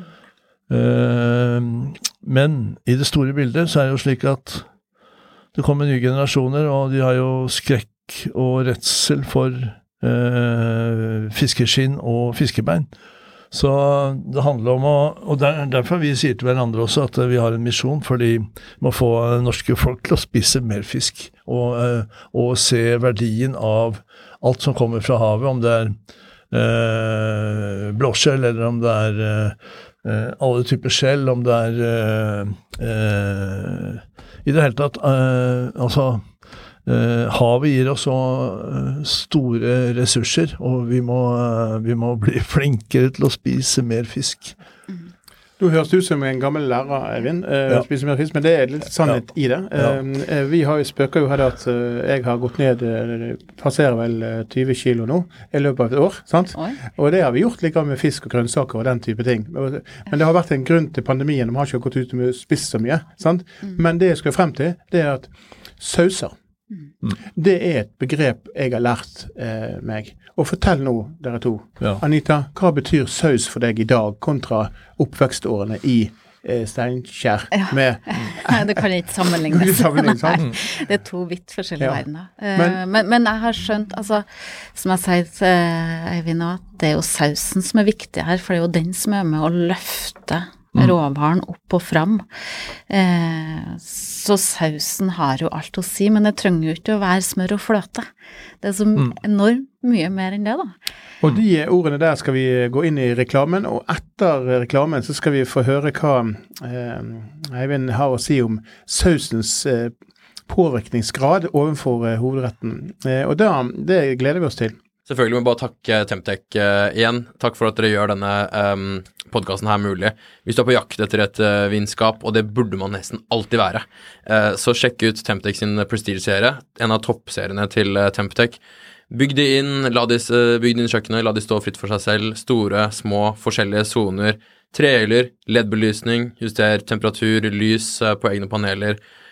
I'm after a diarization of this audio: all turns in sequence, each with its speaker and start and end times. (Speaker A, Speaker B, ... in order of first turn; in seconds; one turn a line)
Speaker A: 0.7-4.7
Speaker A: 5.5-12.9
Speaker A: 13.5-25.9
Speaker A: 26.5-36.2
Speaker A: 36.9-44.6
Speaker B: 45.6-66.3
Speaker A: 49.7-50.0
Speaker B: 67.3-78.7
Speaker C: 78.1-92.3
Speaker B: 79.5-80.5
Speaker B: 82.5-82.8
Speaker C: 92.9-98.1
Speaker C: 98.6-100.7
Speaker B: 101.2-109.9
Speaker B: 110.5-114.8
Speaker D: 115.1-139.0